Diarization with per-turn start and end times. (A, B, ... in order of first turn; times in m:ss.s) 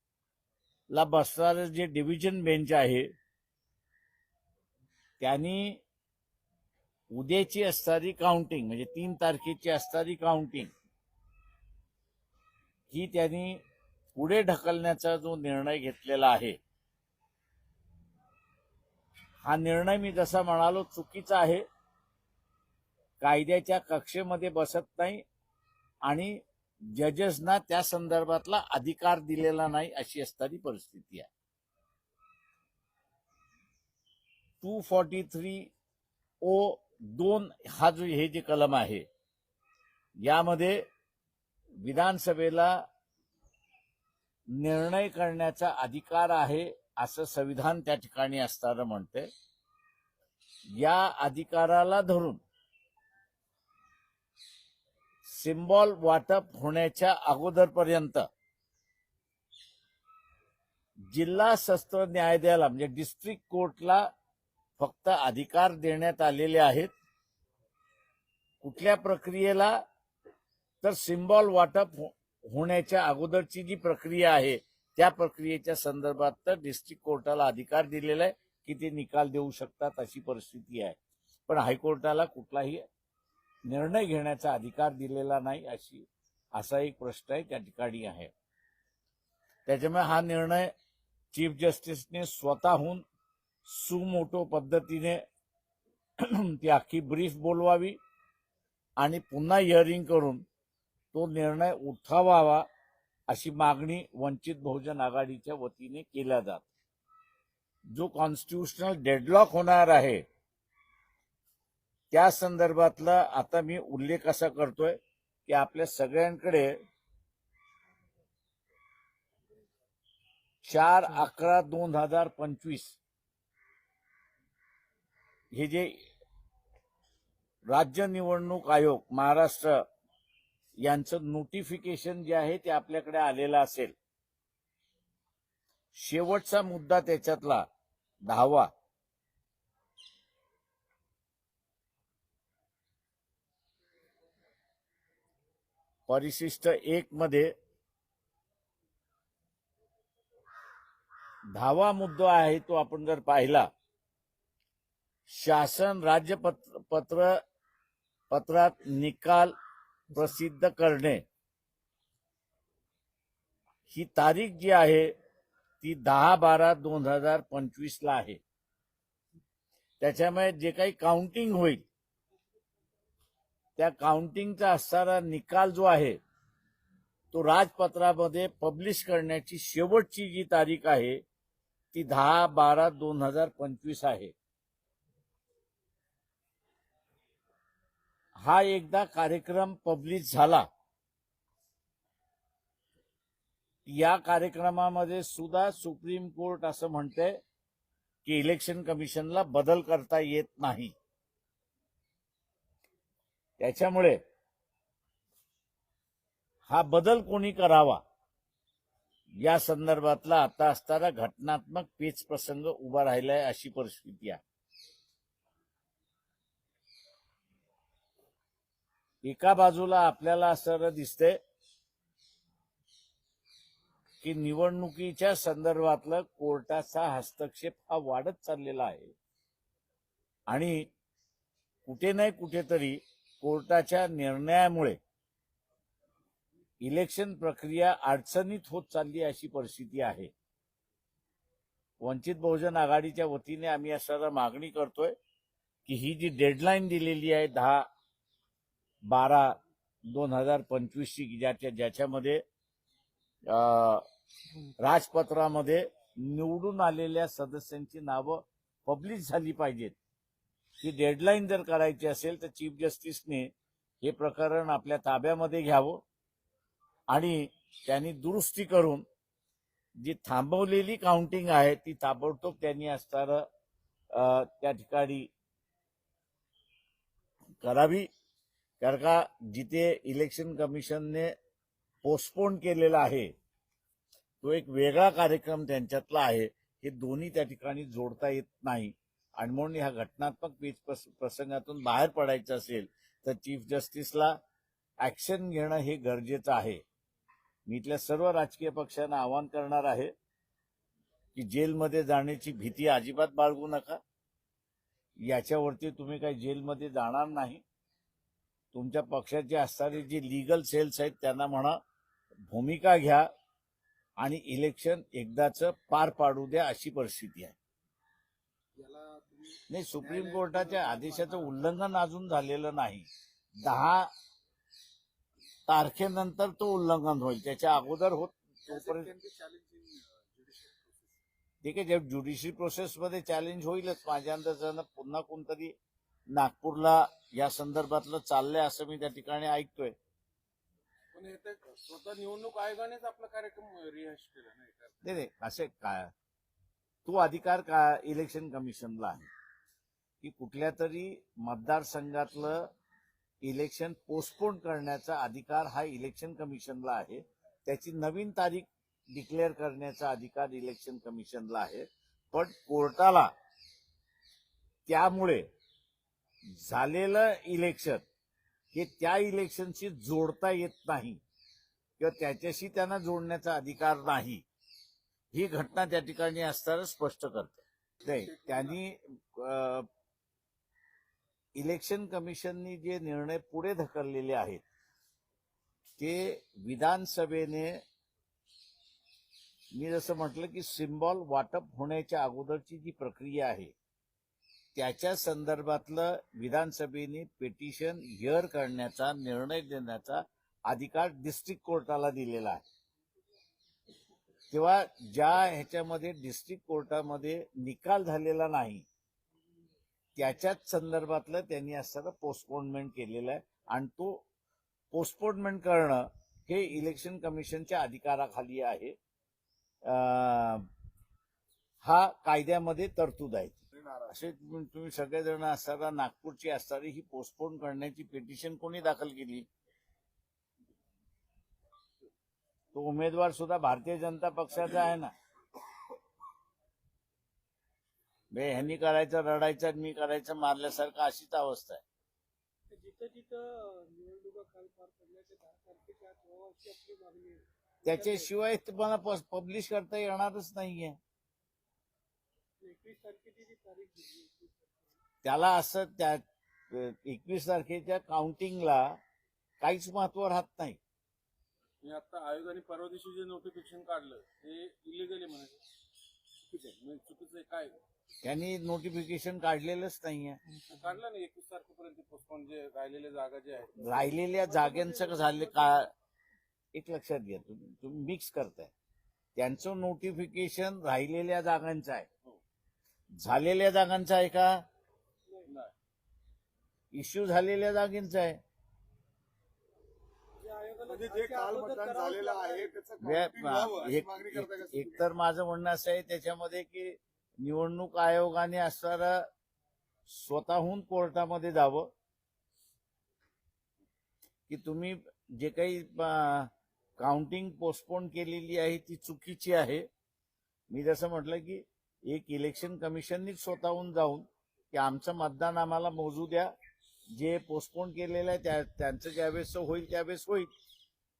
0:00.9-0:03.1 A
0:05.2-0:05.8 A
0:07.1-0:10.7 A
0:12.9-0:13.6 A
0:14.2-0:16.6 A
0:19.4-0:21.6 A
0:23.2-0:25.2 A
0:26.0-0:26.4 A
0:26.9-0:31.3 A
0:34.6-0:35.7 A
0:36.4-0:39.0 A
0:40.2-0:40.8 A
0:41.8-0:42.8 A
0:44.5-0:49.3 A
0:50.7-0:52.4 A
0:55.2-0:58.3 A
1:01.1-1:04.1 A
1:04.8-1:06.9 A
1:08.6-1:09.8 A
1:10.8-1:21.0 A
1:21.5-1:22.8 A
1:23.7-1:28.3 A
1:29.7-1:30.7 A
1:31.3-1:33.0 A
1:33.7-1:35.2 A
1:36.2-1:38.0 A
1:39.0-1:40.4 A
1:41.1-1:42.6 A
1:43.3-1:46.6 A
1:47.9-1:50.2 A
1:52.1-1:56.8 A
2:00.6-2:03.0 A
2:05.5-2:06.1 A
2:07.7-2:09.8 A
2:10.8-2:14.0 A
2:15.9-2:17.7 A
2:18.3-2:18.7 A
2:26.1-2:27.5 A
2:31.6-2:33.7 A
2:35.3-2:37.4 A
2:38.3-2:39.5 A
2:40.1-2:41.2 A
2:43.9-2:45.1 A
2:45.8-2:48.4 A
2:50.0-2:51.8 A
2:53.8-2:56.2 A
2:57.3-3:01.2 A
3:01.9-3:04.3 A
3:08.4-3:10.7 A
3:13.9-3:17.4 A
3:18.2-3:20.9 A
3:23.6-3:24.2 A
3:26.7-3:28.0 A
3:29.4-3:34.4 A
3:39.2-3:41.4 A
3:44.2-3:49.1 A
3:50.5-3:50.9 A
3:51.9-3:55.0 A
3:56.8-4:00.3 A
4:02.0-4:05.2 A
4:05.9-4:07.9 A
4:09.1-4:12.4 A
4:13.5-4:14.0 A
4:14.8-4:20.0 A
4:20.8-4:23.5 A
4:24.0-4:26.0 A
4:27.1-4:29.0 A
4:30.0-4:33.4 A
4:34.1-4:35.3 A
4:37.6-4:38.1 A
4:38.8-4:41.3 A
4:42.0-4:43.3 A
4:44.4-4:54.4 A
4:55.0-4:56.8 A
4:57.7-5:00.1 A
5:01.4-5:04.0 A
5:05.2-5:07.6 A
5:08.7-5:11.8 A
5:12.5-5:13.3 A
5:14.2-5:17.6 A
5:18.8-5:21.4 B
5:19.7-5:23.1 A
5:23.6-5:24.1 A
5:25.7-5:29.1 A
5:28.7-5:31.2 B
5:31.6-5:35.7 A
5:36.3-5:40.0 A
5:41.1-5:45.0 C
5:45.0-5:46.1 A
5:47.1-5:49.3 A
5:50.2-5:52.7 A
5:53.4-6:03.3 A
6:04.9-6:05.5 A
6:06.5-6:08.0 A
6:08.7-6:11.2 A
6:12.0-6:14.4 A
6:15.3-6:19.9 A
6:21.6-6:24.6 A
6:26.0-6:27.8 A
6:29.7-6:33.7 A
6:34.8-6:42.6 A
6:44.5-6:48.8 A
6:50.2-6:54.2 A
6:54.9-6:59.0 A
6:59.8-7:00.7 A
7:01.8-7:09.5 A
7:12.7-7:15.1 A
7:18.3-7:21.8 A
7:22.7-7:28.3 D
7:27.8-7:31.0 A
7:32.6-7:35.0 D
7:35.2-7:39.0 A
7:39.6-7:40.8 A
7:41.8-7:45.6 C
7:46.5-7:47.8 C
7:48.2-7:50.4 A
7:50.7-7:54.2 C
7:53.8-7:55.9 A
7:55.0-7:55.7 D
7:56.7-7:58.7 A
7:59.4-8:02.1 A
8:03.2-8:04.6 A
8:05.5-8:05.7 C
8:06.9-8:08.4 A
8:10.4-8:12.7 D
8:10.9-8:15.0 B
8:13.0-8:19.3 A
8:20.1-8:21.9 A
8:24.5-8:29.9 A
8:30.7-8:36.5 A
8:37.1-8:40.5 A